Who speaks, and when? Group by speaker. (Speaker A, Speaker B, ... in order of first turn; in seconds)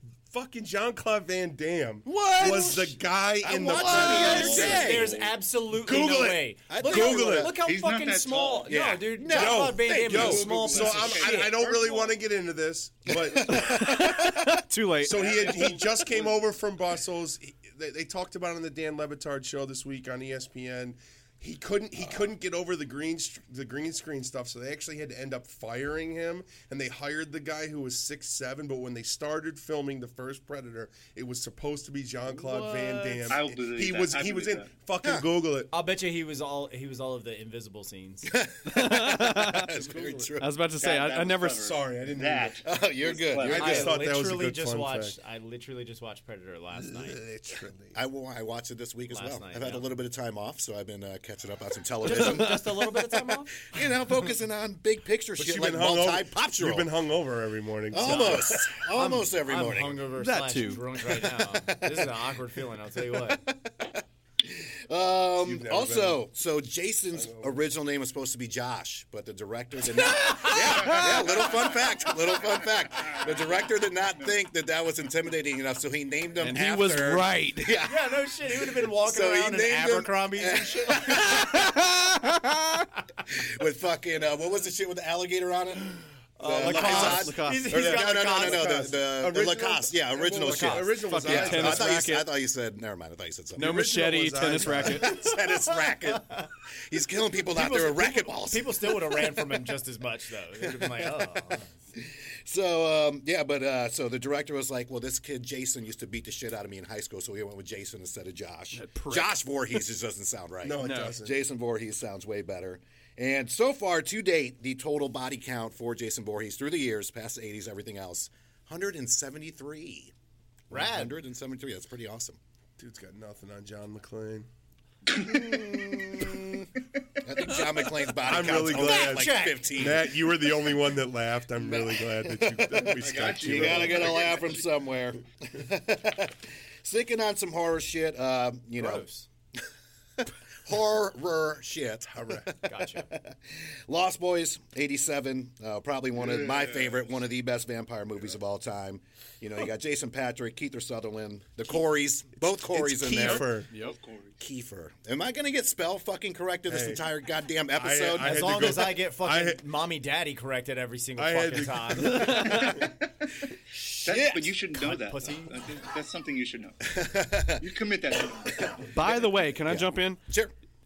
Speaker A: 0.3-5.1, 5.7-7.5, 9.3-14.0, 15.0-35.7, 41.6-42.6, 43.4-45.1, 46.8-48.0, 55.4-58.7, 65.4-66.2, 67.1-67.6, 87.7-92.1, 93.6-95.3, 110.6-111.4, 122.8-124.5, 128.2-134.3, 142.1-142.5, 152.4-153.7, 156.7-157.0, 157.7-159.6, 161.2-162.9
Speaker B: 2.1-2.8, 3.4-5.2, 6.7-7.5, 8.7-10.8, 13.1-14.6, 35.0-35.3, 38.3-40.5, 42.6-43.9, 47.9-52.6, 53.6-56.9, 57.9-60.0, 61.2-62.2, 63.1-81.7, 83.3-93.9, 94.5-99.5, 100.6-101.4, 101.9-120.1, 120.7-122.4, 125.1-126.7, 127.2-130.3, 131.6-139.1, 140.2-153.6, 154.4-158.8, 164.1-164.4, 166.8-167.6, 169.7-170.5
Speaker C: 2.4-2.7, 3.7-11.6, 35.7-38.4, 43.5-47.2, 49.1-49.9, 52.0-53.6, 58.0-63.4, 77.8-81.3, 86.4-88.9, 90.4-90.8, 97.5-101.7, 120.7-121.2, 128.5-129.7, 138.8-139.2, 142.6-143.1, 158.2-162.4, 164.2-165.6
Speaker D: 3.8-4.4, 13.6-15.3, 32.3-33.4, 38.7-39.7, 40.4-41.6, 60.1-60.8, 76.4-77.8, 81.4-82.8, 86.5-87.7, 91.0-92.3, 93.5-95.2, 108.7-109.4, 110.8-111.2, 153.3-154.0, 162.1-162.8, 168.9-170.2
Speaker E: 4.3-4.9, 7.6-8.7, 10.2-12.2, 15.1-16.4, 33.3-34.7, 40.8-43.9, 73.0-74.3, 133.0-134.6, 153.8-154.4, 164.0-166.9, 167.6-168.8